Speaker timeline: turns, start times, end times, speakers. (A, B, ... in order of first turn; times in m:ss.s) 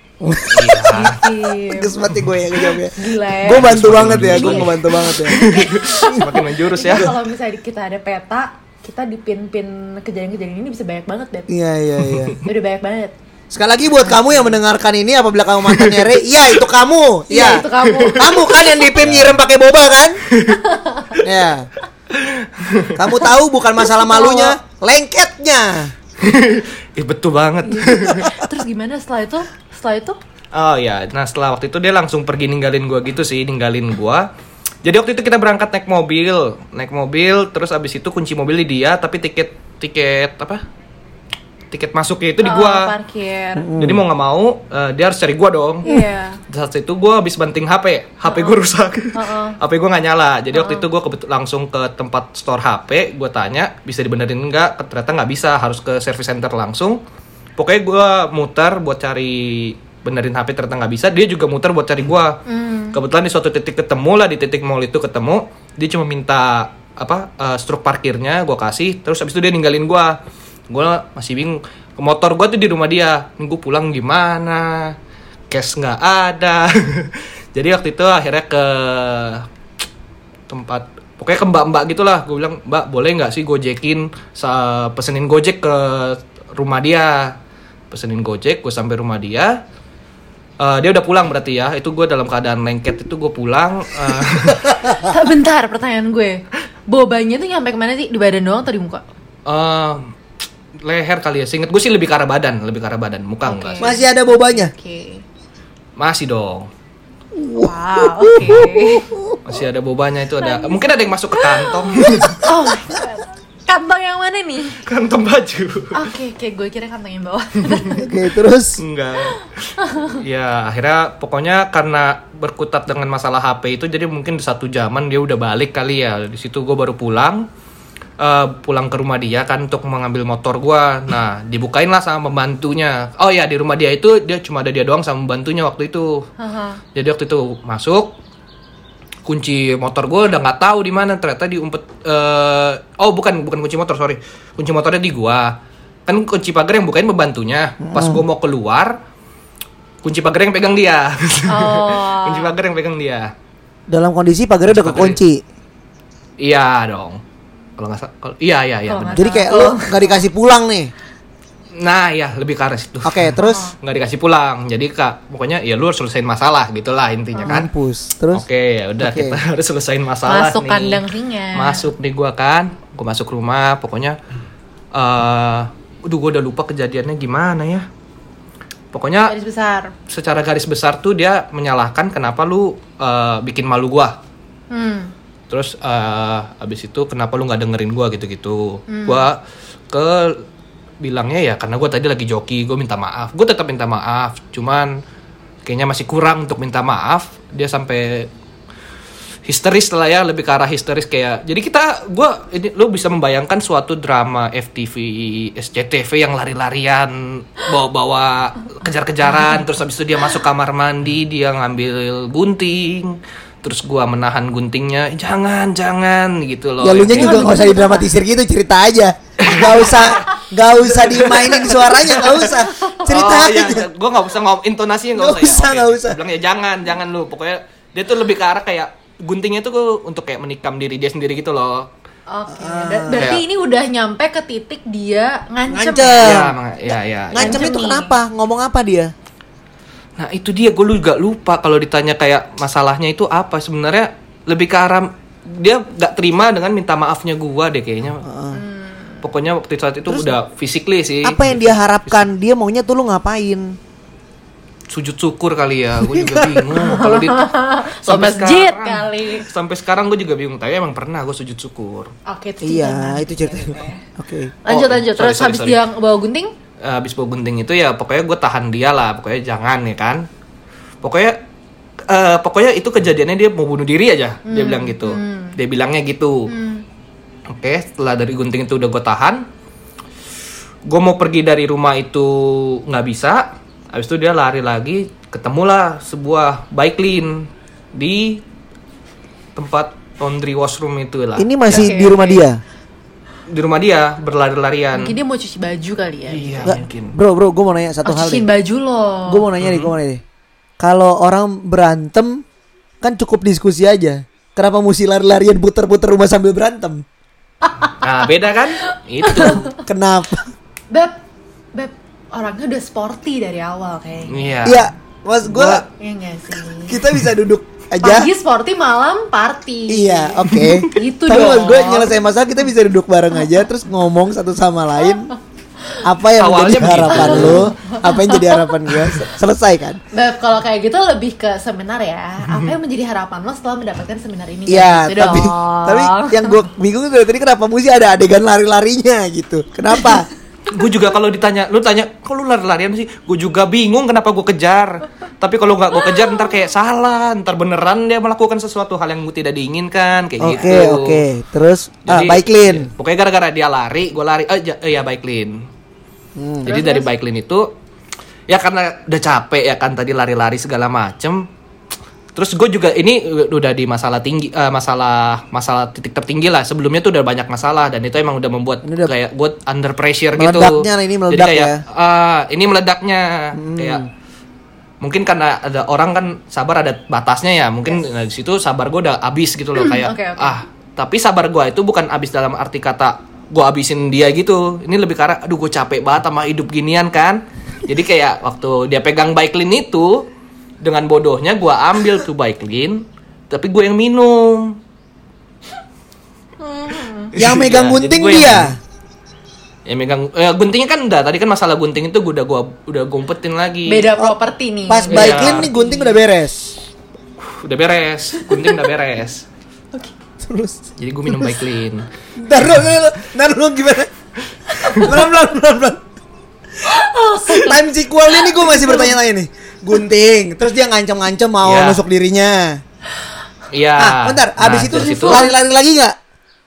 0:00.2-0:01.1 A
0:00.5-0:01.3 B
0:00.9-0:02.0 C
0:01.7-0:05.5 A
0:02.9-0:11.5 C
0:03.5-0:07.1 B
0:11.5-0:12.4 A
0:12.1-0:12.4 B
0:12.4-0:13.1 C
0:13.5-0:20.2 A
0:14.0-0:14.3 C
0:15.7-0:16.1 B
0:17.3-0:18.9 C
0:17.8-0:18.4 B
0:18.9-0:19.4 B
0:20.3-0:20.6 B
0:20.6-0:21.2 C
0:21.2-0:21.7 A
0:22.1-0:23.1 B
0:22.9-0:25.9 A
0:23.8-0:24.6 C
0:26.2-0:28.3 B
0:27.6-0:30.2 C
0:30.5-0:34.3 B
0:34.8-0:40.6 B
0:41.7-0:42.9 B
0:42.4-0:43.7 C
0:43.6-0:44.0 A
0:43.8-0:45.9 B
0:45.8-0:46.4 C
0:46.5-0:57.0 B
0:48.2-0:48.6 C
0:49.1-0:49.6 C
0:50.5-0:50.9 C
0:57.6-1:10.2 B
1:02.5-1:03.0 C
1:10.7-1:14.9 B
1:15.5-1:19.4 B
1:20.5-1:27.4 B
1:27.9-1:29.6 B
1:30.6-1:34.9 B
1:34.8-1:39.0 C
1:39.4-1:40.1 B
1:40.8-1:43.9 B
1:43.4-1:45.2 C
1:43.8-1:44.7 A
1:46.0-1:46.7 B
1:47.3-1:49.4 A
1:47.6-1:49.1 C
1:49.4-1:52.4 B
1:50.4-1:54.8 C
1:54.8-1:56.0 B
1:55.9-1:58.1 C
1:57.9-1:58.8 A
1:58.8-2:07.4 B
1:59.8-2:00.1 C
2:08.2-2:16.3 B
2:16.4-2:16.8 C
2:16.9-2:18.2 B
2:19.2-2:29.0 B
2:27.8-2:28.2 A
2:30.0-2:33.3 B
2:31.5-2:32.5 C
2:33.9-2:35.4 A
2:34.7-2:35.2 B
2:36.4-2:37.2 B
2:37.8-2:39.3 B
2:38.9-2:40.2 C
2:39.1-2:40.9 A
2:41.7-2:47.7 B
2:43.0-2:43.6 A
2:43.4-2:43.8 C
2:47.3-2:47.6 C
2:47.4-2:48.4 A
2:48.3-2:51.0 B
2:49.0-2:49.4 A
2:50.2-2:51.8 C
2:51.5-2:54.2 B
2:54.9-2:57.8 B
2:58.9-2:59.3 B
2:59.2-2:59.9 C
3:00.1-3:04.2 B
3:04.7-3:05.1 C
3:05.5-3:10.4 B
3:08.9-3:09.3 C
3:11.0-3:15.0 B
3:15.6-3:18.3 B
3:19.4-3:37.5 B
3:36.8-3:43.9 A
3:37.1-3:38.1 C
3:39.4-3:40.3 B
3:40.8-3:51.9 B
3:42.7-3:43.0 C
3:45.2-3:46.2 A
3:52.3-3:56.4 C
3:52.5-3:53.3 A
3:53.2-3:53.4 B
3:55.7-3:56.5 A
3:56.2-3:57.7 B
3:57.3-3:59.1 A
3:57.4-3:58.2 C
4:00.2-4:08.2 B
4:08.2-4:08.6 A
4:08.5-4:09.2 C
4:09.2-4:12.3 B
4:10.1-4:10.3 A
4:11.2-4:13.8 A
4:14.9-4:22.1 B
4:16.0-4:16.9 A
4:16.8-4:19.5 C
4:22.2-4:24.0 C
4:22.6-4:24.6 A
4:24.6-4:26.5 C
4:24.7-4:25.8 B
4:26.8-4:30.3 B
4:31.0-4:31.4 B
4:32.1-4:36.5 B
4:34.4-4:35.6 C
4:36.5-4:36.8 C
4:37.5-4:39.5 B
4:40.8-4:48.4 B
4:49.6-4:51.9 B
4:51.4-4:52.6 A
4:51.7-4:52.4 C
4:53.5-4:55.2 B
4:54.9-4:56.8 C
4:56.3-4:57.2 B
4:56.6-4:58.4 A
4:58.0-4:59.4 C
4:59.3-5:00.2 A
4:59.6-4:59.9 B
5:00.8-5:02.4 A
5:03.0-5:07.0 A
5:08.0-5:09.7 B
5:09.2-5:09.8 C
5:09.4-5:10.5 A
5:10.9-5:11.2 C
5:11.7-5:14.6 C
5:14.3-5:14.9 B
5:14.6-5:15.8 A
5:15.4-5:15.8 B
5:16.0-5:17.0 C
5:16.9-5:18.3 A
5:18.0-5:22.2 C
5:19.9-5:25.3 A
5:20.5-5:20.9 B
5:26.0-5:30.0 A
5:26.4-5:27.7 B
5:27.1-5:28.8 C
5:30.1-5:36.6 C
5:32.4-5:32.7 B
5:34.7-5:40.3 A
5:40.7-5:51.2 B
5:50.4-5:52.9 A
5:52.0-5:55.7 B
5:56.4-5:56.7 A
5:56.6-5:57.1 C
5:56.6-5:57.7 B
5:58.5-6:01.5 B
6:02.3-6:14.0 B
6:08.8-6:09.1 A
6:10.3-6:11.8 A
6:13.5-6:14.1 A
6:15.0-6:30.3 B
6:19.8-6:20.6 C
6:30.8-6:34.8 B
6:36.6-6:37.3 C
6:37.3-6:38.7 B
6:37.4-6:38.8 A
6:39.8-6:44.1 B
6:43.9-6:46.2 C
6:44.9-6:46.8 A
6:45.1-6:45.7 B
6:47.4-6:49.4 B
6:48.4-6:48.8 C
6:50.4-6:51.5 A
6:51.0-6:52.1 B
6:52.4-6:54.1 A
6:54.7-6:55.1 C
6:54.8-6:56.0 A
6:56.8-6:59.2 C
6:57.5-7:02.8 A
7:01.6-7:02.0 B
7:03.7-7:05.4 B
7:04.0-7:06.1 A
7:05.2-7:05.5 C